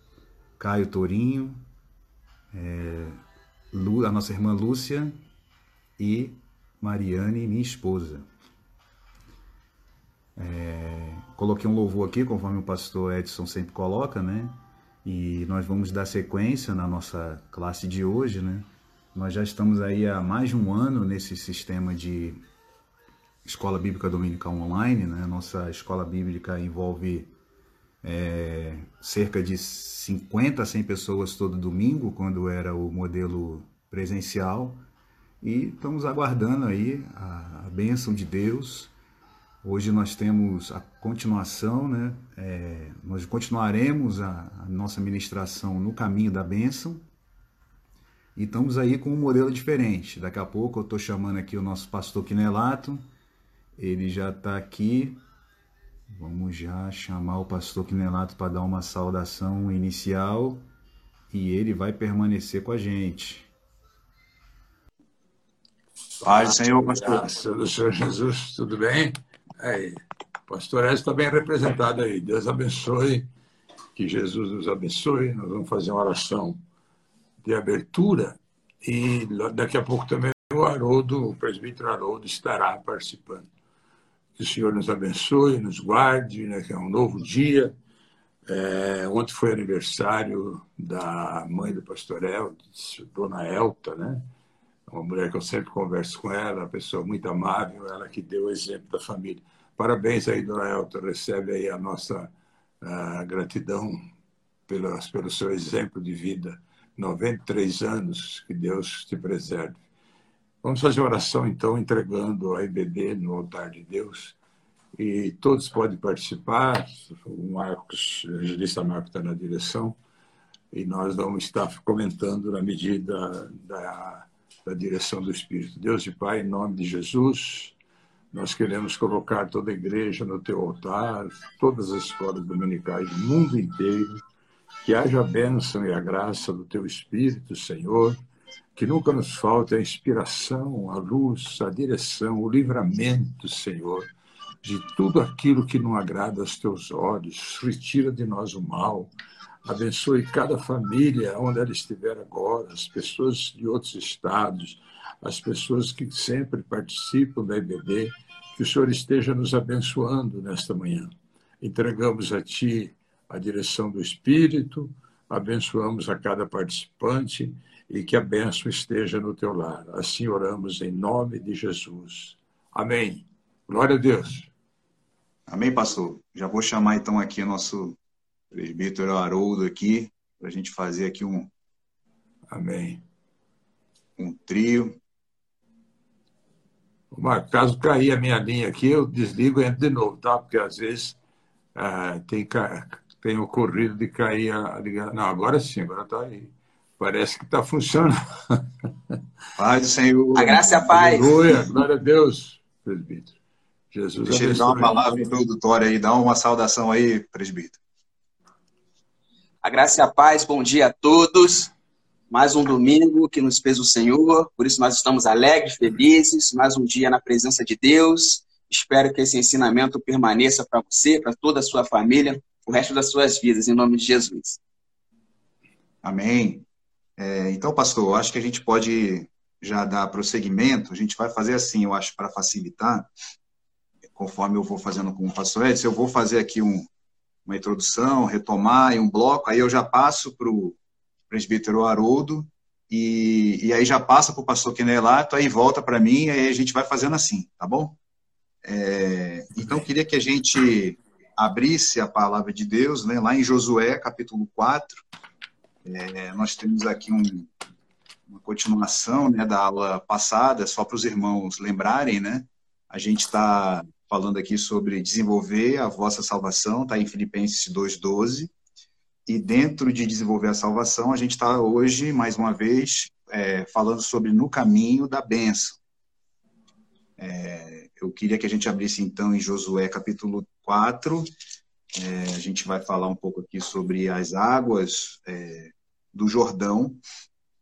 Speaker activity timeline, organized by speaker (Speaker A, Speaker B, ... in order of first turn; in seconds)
Speaker A: 0.6-1.7, 2.5-3.2, 3.7-5.2, 6.0-8.3, 10.3-22.4, 23.4-27.3, 28.0-34.8, 35.4-38.9, 39.6-47.1, 48.3-53.0, 53.8-55.2, 56.1-60.7, 61.3-63.5, 66.2-67.2, 175.5-178.0, 178.5-181.5, 184.2-185.0, 199.6-201.7, 204.2-207.8, 226.0-226.7, 227.2-233.1, 234.2-236.9, 237.5-240.8, 241.3-248.0, 248.6-255.0, 255.8-257.5, 258.3-268.5, 269.3-275.8, 277.2-281.3, 282.0-287.0
Speaker B: 66.2-73.3, 73.9-76.6, 77.4-83.5, 84.4-87.7, 88.5-94.2, 94.9-102.3, 102.8-104.0, 104.7-109.8, 110.6-114.3, 115.0-120.0, 120.7-127.7, 128.3-134.2, 134.8-138.2, 138.8-144.1, 144.6-149.1, 149.7-174.5, 182.5-183.0, 187.1-191.2, 191.7-198.6, 200.9-203.3, 203.9-205.1
Speaker C: 200.3-201.2, 209.6-211.7, 212.3-224.6